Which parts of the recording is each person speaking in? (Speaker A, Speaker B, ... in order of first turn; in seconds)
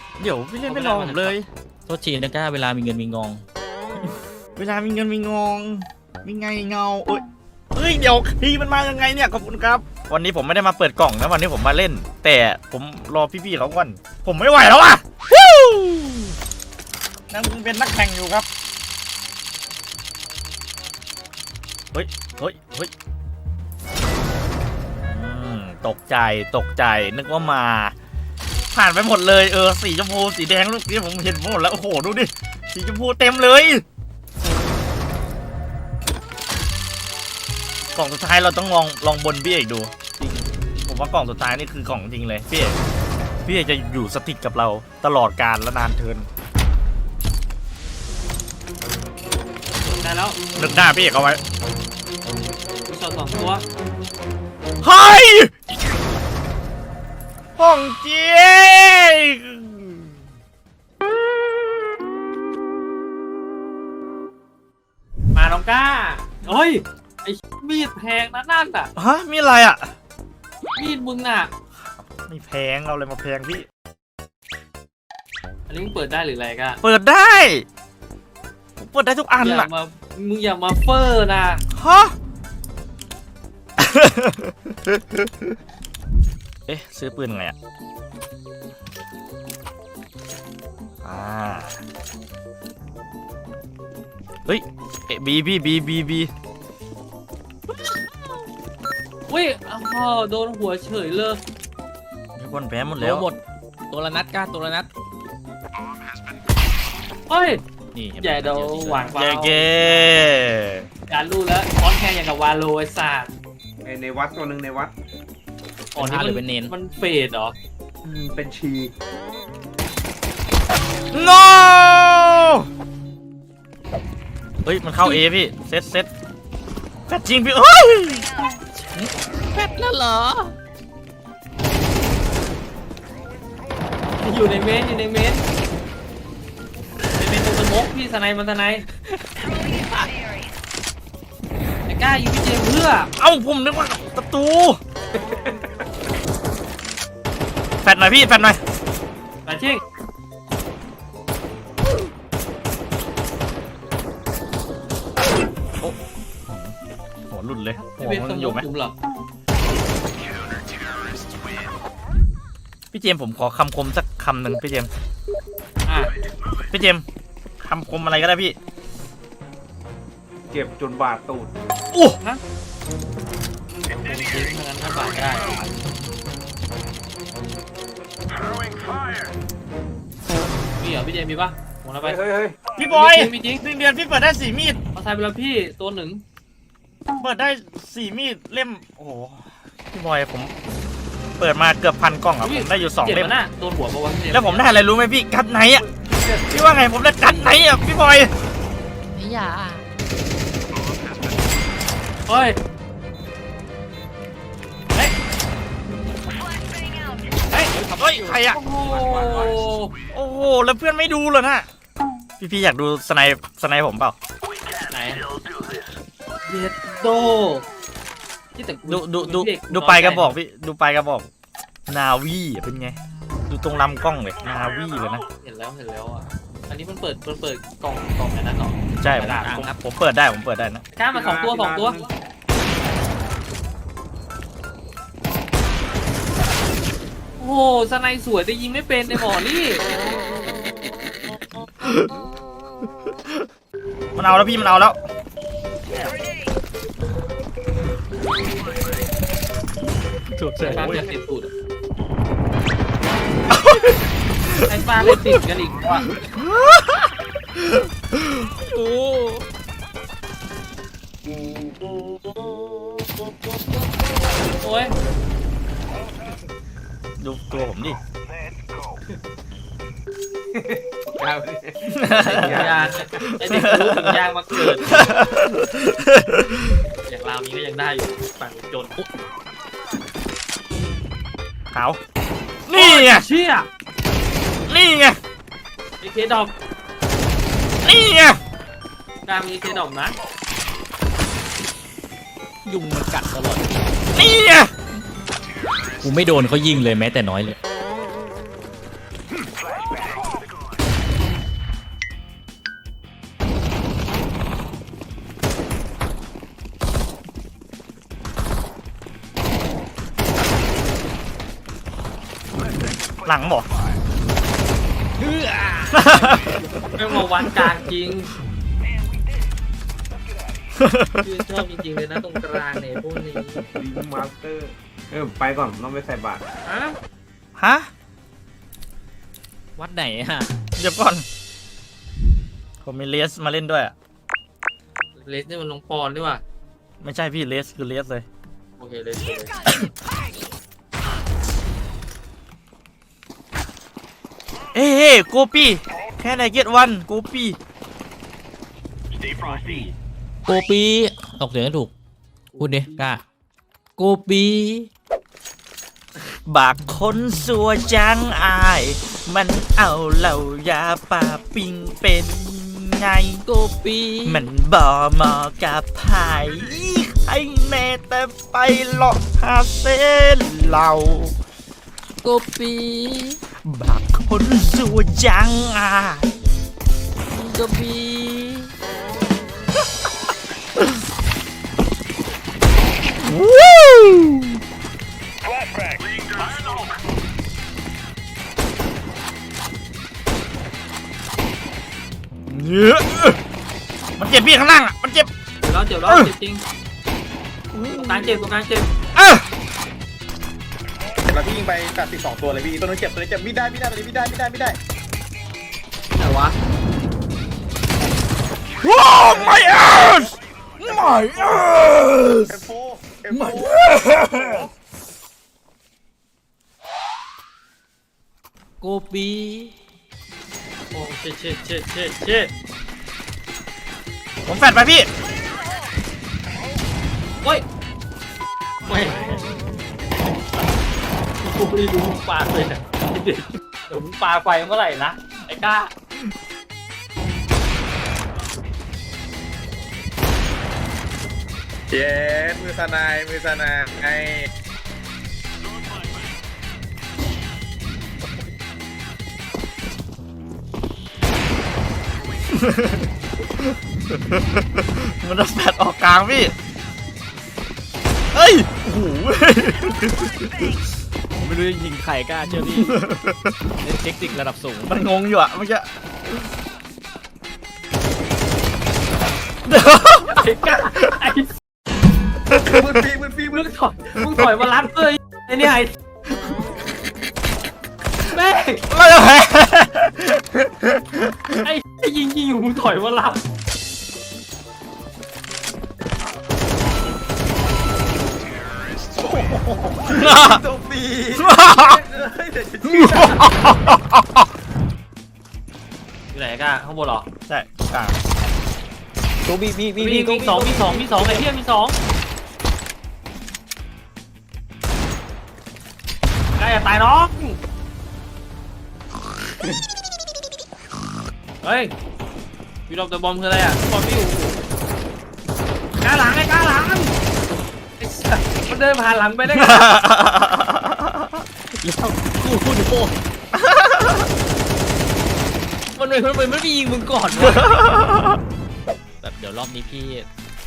Speaker A: 0.2-1.5, 4.0-16.4, 17.3-18.5, 21.9-22.9, 25.1-27.9, 28.7-33.8, 37.9-42.8, 43.4-46.3, 50.6-51.4, 54.8-55.5, 57.6-60.2, 69.0-69.9, 72.2-73.6, 76.8-77.6, 78.8-79.7, 81.7-82.1, 83.8-85.5, 86.7-87.5, 91.0-91.8, 94.5-96.3, 102.4-103.3, 109.1-110.9, 121.1-122.7, 124.6-126.1, 127.1-128.3, 143.2-144.8, 147.8-148.6, 155.8-156.7, 157.3-158.7, 162.9-164.9, 166.7-167.0, 167.6-168.6, 171.9-172.2, 182.8-184.8, 187.2-190.5, 191.4-193.3, 194.3-195.8, 196.5-198.3, 207.9-208.6, 210.1-211.7, 212.4-214.1, 218.9-221.3, 221.9-222.9, 223.5-225.2, 228.9-230.8, 241.8-242.1, 244.2-245.0, 250.8-251.0, 253.5-254.8, 256.2-258.4, 267.2-268.0, 271.9-276.8, 281.7-282.0, 282.6-283.3, 284.7-285.2, 287.8-288.4, 294.1-294.7, 313.2-313.7, 315.9-316.4, 320.8-321.2, 327.6-327.9, 330.8-331.2, 332.8-333.9, 337.0-338.2, 344.7-347.6, 356.4-363.4, 364.2-371.3, 373.6-376.3, 383.2-384.6, 392.5-393.4, 394.2-395.3, 396.0-396.3, 397.7-398.5, 399.1-399.4, 408.8-412.6, 413.3-414.7, 424.4-425.1, 452.5-456.5, 458.3-460.8, 462.7-463.5, 464.8-465.9, 469.7-471.1, 478.9-481.5, 489.2-490.6, 491.4-492.0, 493.0-494.3, 497.5-498.2, 519.5-524.3, 527.3-528.4
Speaker B: 0.6-1.4, 1.9-3.4, 103.0-103.4, 103.9-104.9, 107.9-109.1, 115.9-116.7, 128.9-130.5, 207.5-208.4, 229.4-229.7, 250.3-251.0, 258.6-259.4, 292.6-293.7, 296.0-297.5, 315.2-316.4, 329.8-330.5, 350.4-351.9, 352.6-353.2, 354.0-354.9, 363.4-364.5, 372.2-373.4, 377.3-378.7, 418.8-419.7, 461.4-463.1, 463.8-464.9, 525.9-528.1, 529.2-530.3
Speaker C: 49.8-50.4, 52.7-53.6, 65.3-68.9, 70.8-71.5, 75.7-76.8, 79.4-81.6, 99.3-101.4, 107.3-107.6, 108.2-109.7, 111.1-113.3, 116.0-117.5, 134.2-135.4, 137.1-138.8, 141.9-143.1, 149.4-149.8, 157.8-158.9, 165.8-166.1, 173.9-175.7, 180.8-182.2, 182.8-183.6, 184.9-186.2, 192.4-194.7, 195.9-196.5, 199.2-199.8, 202.3-202.6, 208.5-209.9, 214.9-215.3, 216.4-217.7, 218.6-220.3, 225.3-229.6, 230.9-232.0, 237.4-239.8, 250.6-251.5, 254.7-256.2, 264.6-264.9, 272.3-275.0, 277.0-279.0, 282.7-283.7, 286.0-286.5, 289.2-290.2, 316.4-318.3, 321.2-323.7, 326.6-326.9, 335.2-336.4, 338.8-339.6, 352.5-353.0, 395.6-396.6, 397.9-398.9, 406.1-406.6, 420.9-422.5, 428.9-429.4, 431.4-435.9, 470.3-471.5, 473.5-475.9, 478.2-478.9, 481.5-483.4, 496.3-497.3, 500.0-501.9, 506.6-507.6, 511.6-511.9, 512.9-514.6, 516.0-517.1, 518.0-520.0
Speaker D: 113.8-114.9, 118.0-118.9, 170.5-171.5, 182.0-182.6, 231.1-232.1, 270.5-273.1, 323.7-326.4, 491.3-491.8, 499.4-501.3
Speaker E: 349.2-349.9, 401.3-404.8, 412.5-414.7, 441.9-444.5, 472.5-473.7, 490.0-493.5